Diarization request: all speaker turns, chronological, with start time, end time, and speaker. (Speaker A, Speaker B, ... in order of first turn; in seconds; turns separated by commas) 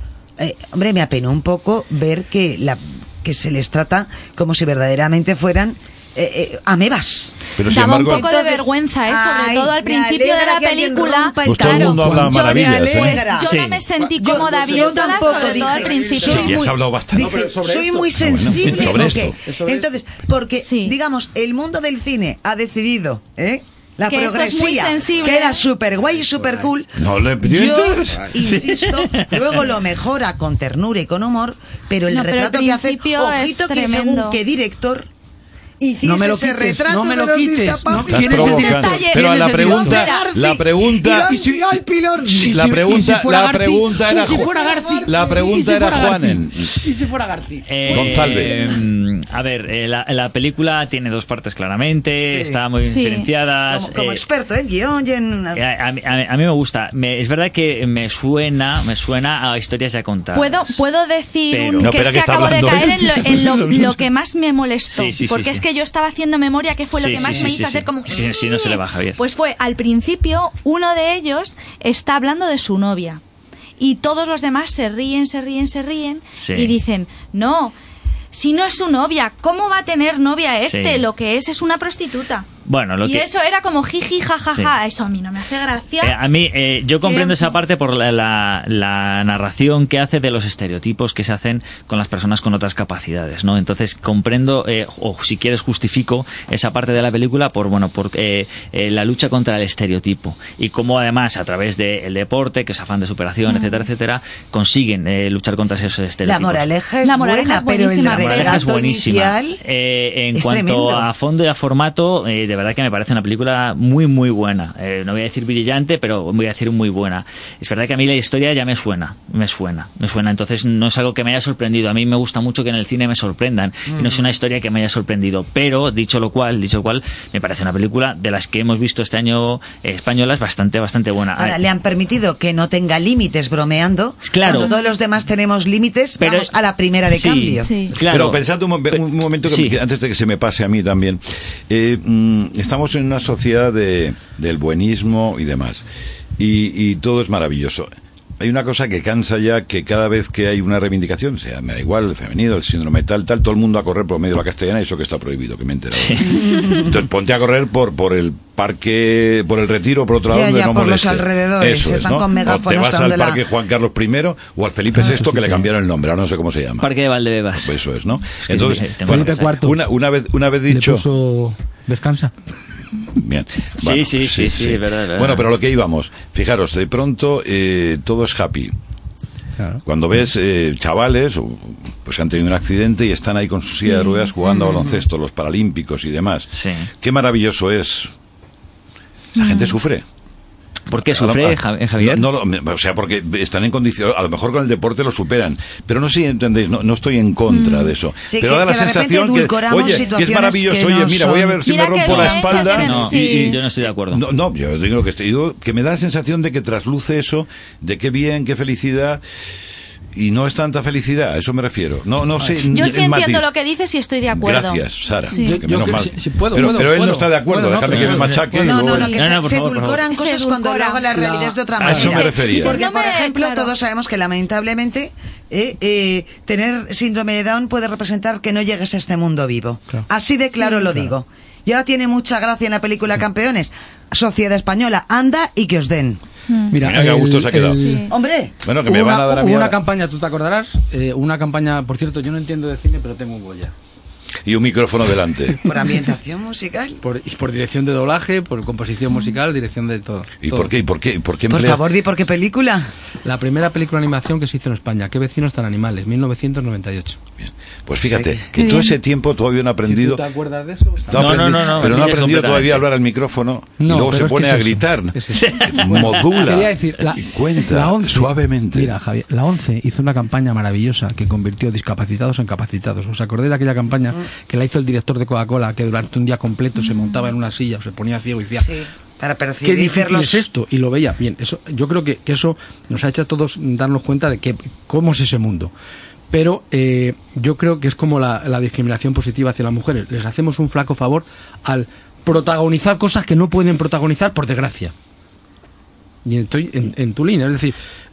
Speaker A: 0.4-13.5, Speaker B: 7.6-8.3, Speaker C: 7.7-16.6, Speaker B: 11.5-13.2, Speaker D: 12.0-12.3, Speaker E: 13.4-13.9, Speaker D: 14.0-16.4, Speaker A: 14.2-35.1, Speaker B: 16.2-17.4, Speaker D: 17.1-19.9, Speaker B: 18.2-19.4, Speaker C: 20.6-20.9, Speaker C: 24.1-25.6, Speaker D: 26.0-26.7, Speaker B: 27.0-28.4, Speaker D: 28.1-28.4, Speaker E: 28.5-29.4, Speaker C: 32.1-34.4, Speaker A: 35.8-38.7, Speaker D: 36.0-39.1, Speaker B: 38.0-41.4, Speaker C: 38.4-40.2, Speaker A: 39.5-43.0, Speaker D: 39.7-40.0, Speaker D: 41.2-48.8, Speaker B: 42.4-46.8, Speaker A: 44.1-45.4, Speaker E: 47.7-54.2, Speaker B: 47.9-48.6, Speaker A: 52.2-52.6, Speaker C: 52.8-53.3, Speaker A: 53.7-55.6, Speaker E: 55.5-60.8, Speaker C: 60.3-73.2, Speaker E: 61.5-62.8, Speaker B: 61.8-63.8, Speaker E: 64.9-65.6, Speaker E: 67.0-69.2, Speaker C: 73.8-77.7, Speaker E: 76.4-76.8, Speaker C: 78.3-82.5, Speaker E: 80.7-81.0, Speaker E: 82.7-83.3, Speaker C: 83.0-86.2, Speaker E: 86.0-106.7, Speaker C: 87.0-87.5, Speaker C: 103.5-103.8, Speaker A: 106.3-109.6, Speaker C: 107.0-108.7, Speaker E: 108.1-131.6, Speaker A: 110.3-111.1, Speaker A: 123.9-124.3, Speaker A: 131.4-137.7, Speaker E: 134.2-134.7, Speaker C: 134.5-134.8, Speaker E: 136.2-136.5, Speaker E: 137.1-139.8, Speaker C: 137.6-137.9, Speaker B: 138.1-145.8, Speaker B: 146.4-166.9, Speaker E: 155.9-156.4, Speaker A: 156.3-156.9, Speaker A: 160.3-163.4, Speaker D: 165.0-165.7, Speaker E: 166.8-167.8, Speaker B: 167.6-171.1, Speaker E: 168.5-169.6, Speaker D: 169.1-169.8, Speaker D: 170.7-172.3, Speaker B: 173.1-178.8, Speaker E: 173.8-175.5, Speaker B: 179.9-186.5, Speaker C: 183.9-184.3, Speaker E: 186.5-186.9, Speaker B: 187.0-188.1, Speaker C: 189.4-189.7, Speaker B: 189.4-190.1, Speaker E: 190.9-192.3, Speaker B: 190.9-209.2, Speaker C: 197.5-197.9, Speaker A: 198.3-202.8, Speaker C: 201.7-203.6, Speaker E: 202.7-204.2, Speaker B: 210.1-213.5, Speaker C: 212.7-215.6, Speaker B: 214.3-219.1, Speaker D: 215.3-218.9, Speaker E: 217.9-218.3, Speaker A: 218.6-236.2, Speaker C: 218.8-219.3, Speaker E: 218.9-220.1, Speaker C: 220.1-221.1, Speaker D: 221.1-222.2, Speaker B: 221.8-222.8, Speaker C: 221.9-223.7, Speaker C: 230.5-230.9, Speaker C: 236.5-236.8, Speaker D: 236.7-238.1, Speaker B: 236.8-237.8, Speaker C: 237.8-238.1, Speaker A: 238.1-238.6, Speaker B: 238.6-239.8, Speaker D: 238.8-243.7, Speaker B: 244.4-245.6, Speaker A: 245.6-247.0, Speaker D: 247.0-250.7, Speaker B: 250.4-251.9, Speaker A: 251.5-252.9, Speaker D: 253.2-257.2, Speaker B: 257.4-260.2, Speaker A: 258.0-258.4, Speaker C: 258.5-258.9, Speaker D: 259.9-262.1, Speaker B: 261.1-269.0, Speaker E: 261.1-262.9, Speaker D: 263.8-278.7, Speaker E: 265.4-265.7, Speaker A: 278.6-280.4, Speaker D: 279.6-285.7, Speaker D: 286.3-294.9, Speaker D: 296.2-297.8